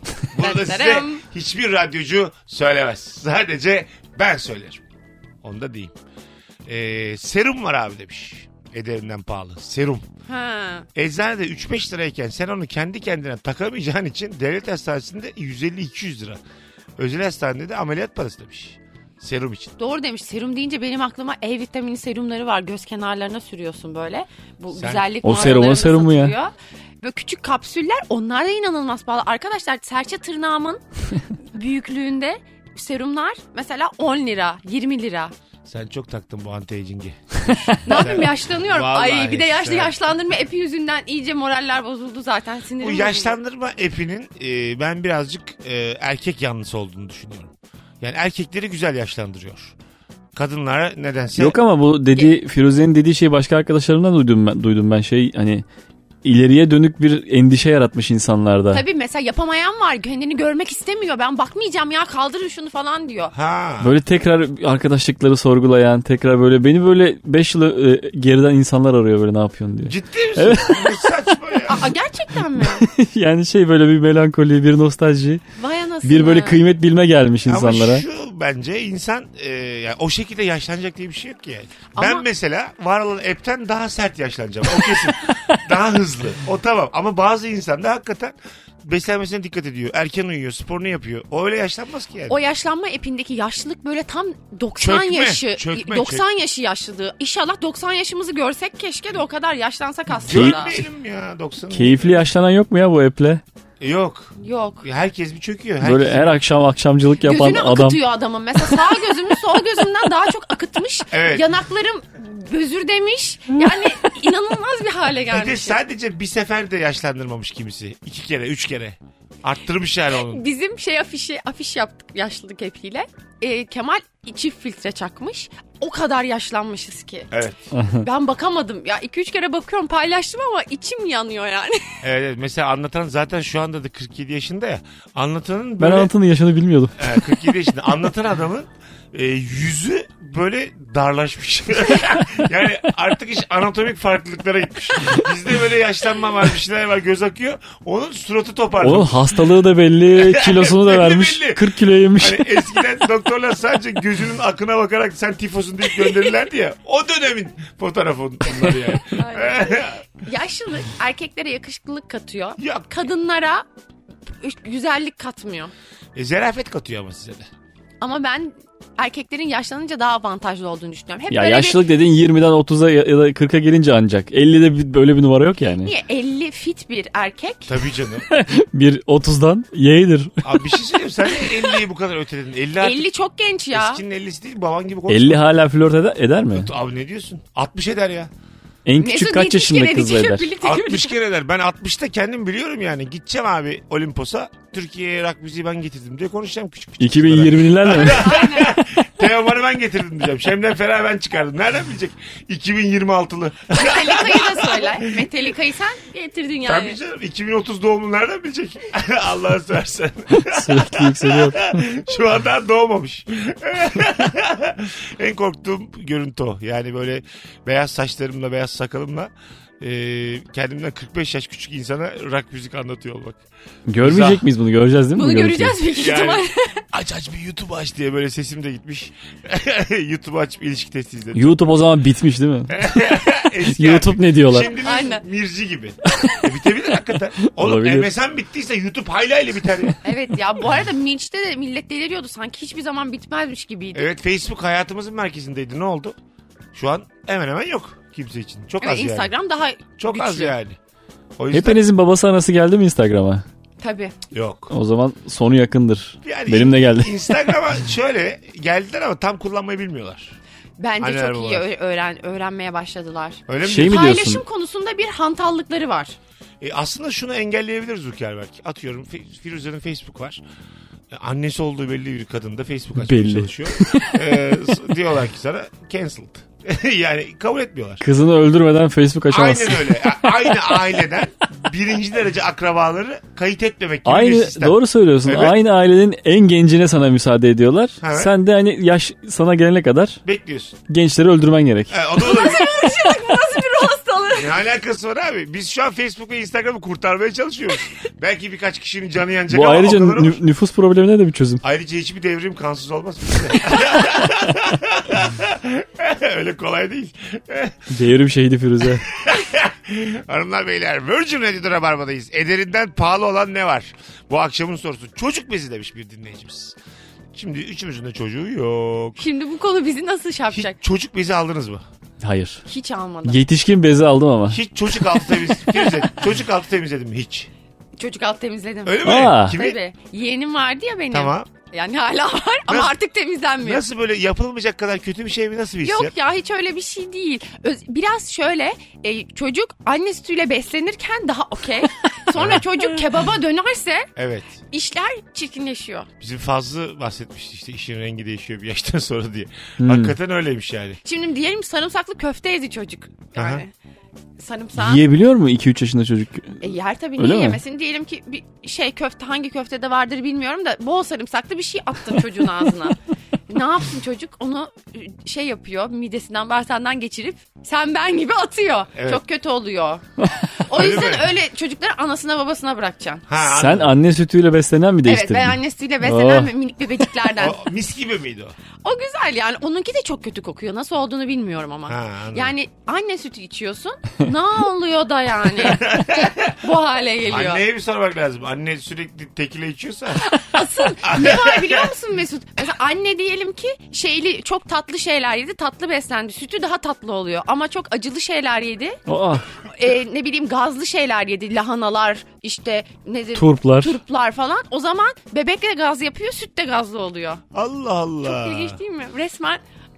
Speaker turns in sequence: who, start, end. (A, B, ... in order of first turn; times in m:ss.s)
0:00.3-0:04.8 A
0:00.4-0:01.2 B
0:05.4-0:05.9 A
0:06.6-0:10.0 A
0:10.3-0:10.9 B
0:10.9-0:16.4 A
0:17.0-0:19.8 A
0:19.8-0:30.8 B
0:24.7-0:25.6 A
0:25.2-0:26.3 C
0:31.5-0:35.3 B
0:35.6-0:40.0 A
0:37.8-0:43.4 B
0:42.8-0:49.7 A
0:50.3-0:51.6 A
0:51.4-0:55.6 C
0:56.2-0:58.8 C
0:58.7-1:03.3 B
1:03.3-1:03.9 A
1:03.8-1:11.1 C
1:09.8-1:11.9 A
1:11.7-1:12.9 B
1:12.6-1:15.4 C
1:15.6-1:16.6 B
1:16.0-1:18.0 C
1:17.4-1:32.4 A
1:21.9-1:22.2 B
1:32.3-1:40.8 B
1:34.8-1:36.2 A
1:40.2-1:40.7 C
1:40.2-1:42.3 A
1:41.7-1:43.4 C
1:43.8-1:46.4 A
1:44.4-1:44.8 B
1:45.8-1:48.0 C
1:47.2-1:55.8 B
1:51.1-1:51.5 A
1:55.3-2:00.4 A
2:00.1-2:07.3 B
2:07.3-2:07.6 A
2:07.7-2:08.1 C
2:07.9-2:12.0 B
2:12.0-2:16.1 A
2:15.8-2:17.3 C
2:17.0-2:29.4 A
2:28.8-2:32.5 C
2:30.1-2:40.0 A
2:39.1-2:43.6 B
2:42.6-2:42.9 A
2:44.4-2:45.7 B
2:46.1-2:47.5 A
2:48.0-2:51.8 B
2:51.3-2:55.9 C
2:55.8-2:57.7 B
2:57.7-2:58.3 A
2:58.3-3:00.6 C
3:00.4-3:03.1 A
3:02.8-3:04.0 B
3:03.7-3:05.4 A
3:05.1-3:06.7 C
3:06.5-3:08.3 A
3:08.8-3:10.5 C
3:09.0-3:11.1 B
3:10.6-3:25.3 A
3:17.0-3:18.3 C
3:18.0-3:18.8 B
3:23.7-3:27.0 B
3:26.6-3:43.4 A
3:30.3-3:31.8 C
3:43.9-3:45.8 C
3:44.0-3:44.4 A
3:45.1-3:46.8 B
3:45.9-3:51.6 A
3:51.3-3:52.8 C
3:52.7-4:00.0 A
3:53.6-3:54.7 C
3:54.7-3:55.2 B
3:57.4-3:58.1 C
4:00.0-4:04.1 B
4:03.9-4:06.2 A
4:06.7-4:09.3 A
4:08.8-4:10.6 B
4:10.0-4:10.8 A
4:11.4-4:11.8 A
4:11.5-4:13.4 C
4:13.8-4:14.1 B
4:14.3-4:14.7 A
4:14.7-4:17.4 C
4:16.2-4:20.4 A
4:20.8-4:26.2 B
4:21.0-4:21.7 A
4:23.5-4:24.1 A
4:23.6-4:24.4 C
4:26.6-4:30.4 A
4:31.1-4:38.0 A
4:33.0-4:34.2 C
4:38.0-4:40.6 C
4:39.3-4:45.6 A
4:44.0-4:50.2 C
4:48.0-4:48.3 A
4:50.2-4:50.8 A
4:50.9-4:52.0 C
4:51.9-4:52.7 A
4:52.2-4:54.5 B
4:54.3-5:00.4 A
4:59.5-5:01.6 C
5:01.6-5:07.9 A
5:07.9-5:09.1 C
5:09.1-5:16.8 A
5:17.3-5:19.2 A
5:19.2-5:20.8 B
5:20.5-5:21.8 A
5:22.2-5:22.6 C
5:22.6-5:23.4 B
5:23.2-5:24.6 C
5:24.5-5:27.5 A
5:28.0-5:33.8 B
5:28.8-5:29.8 A
5:29.0-5:29.6 C
5:31.1-5:31.5 A
5:32.7-5:32.9 A
5:33.6-5:36.1 A
5:35.8-5:44.1 B
5:42.3-5:42.7 A
5:44.2-5:44.6 A
5:44.7-5:46.1 B
5:46.2-5:51.0 A
5:49.8-5:50.1 C
5:51.0-5:53.7 B
5:53.3-5:53.6 A
5:54.4-5:55.0 B
5:54.8-5:56.6 C
5:56.6-6:13.2 B
5:57.2-5:57.6 C
6:08.9-6:09.2 A
6:10.7-6:11.3 A
6:13.3-6:14.0 A
6:13.4-6:16.5 C
6:15.0-6:17.6 B
6:17.4-6:18.6 A
6:18.8-6:27.6 B
6:21.9-6:22.5 A
6:25.6-6:26.6 A
6:27.2-6:30.4 A
6:30.2-6:39.0 B
6:31.0-6:31.9 A
6:39.1-6:39.4 C
6:39.7-6:47.4 B
6:43.3-6:44.0 C
6:47.5-6:48.8 A
6:48.2-6:49.6 B